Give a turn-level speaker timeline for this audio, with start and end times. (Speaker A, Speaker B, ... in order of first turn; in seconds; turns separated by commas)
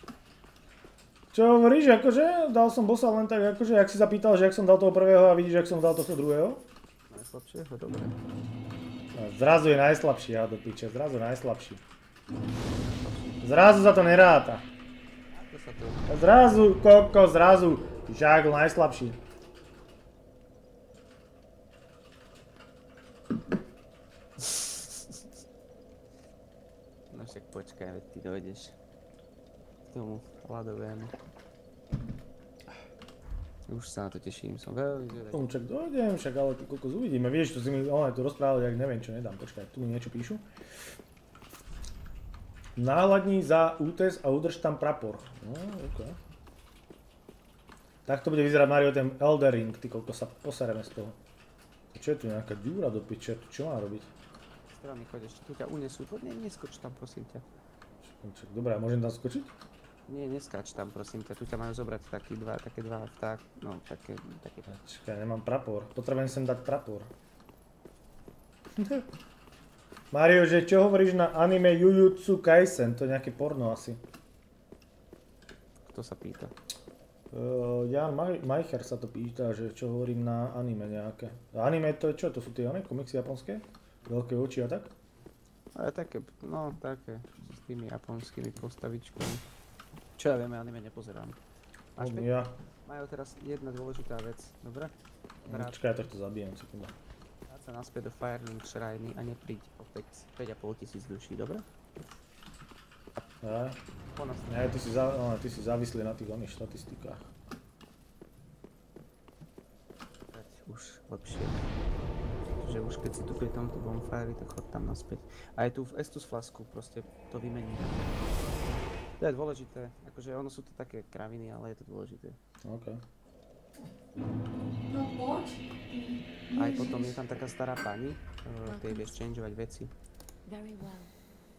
Speaker A: 1.3-6.7, Speaker B: 7.1-8.2, Speaker A: 9.1-11.8, Speaker B: 12.8-13.4, Speaker A: 13.4-14.7, Speaker B: 15.3-16.1, Speaker A: 16.1-19.2, Speaker B: 27.1-28.8, Speaker B: 29.9-31.2, Speaker B: 33.7-35.5, Speaker A: 35.3-40.5, Speaker A: 42.8-46.2, Speaker A: 48.0-51.2, Speaker A: 51.9-54.1, Speaker B: 54.7-57.5, Speaker A: 58.0-59.5, Speaker B: 60.1-64.8, Speaker A: 64.7-67.1, Speaker A: 68.8-69.1, Speaker A: 70.1-74.0, Speaker B: 75.9-76.5, Speaker A: 77.3-84.9, Speaker B: 85.8-89.4, Speaker B: 90.2-91.4, Speaker B: 92.0-92.3, Speaker A: 92.0-92.5, Speaker B: 92.8-95.0, Speaker A: 95.5-97.0, Speaker B: 95.5-95.8, Speaker B: 97.5-101.7, Speaker A: 103.4-103.8, Speaker B: 104.0-104.7, Speaker A: 104.5-107.3, Speaker B: 110.3-111.7, Speaker B: 112.6-118.1, Speaker B: 119.2-122.4, Speaker A: 122.6-123.0, Speaker C: 124.9-126.9, Speaker B: 126.5-129.9, Speaker C: 128.7-129.2, Speaker C: 130.5-131.1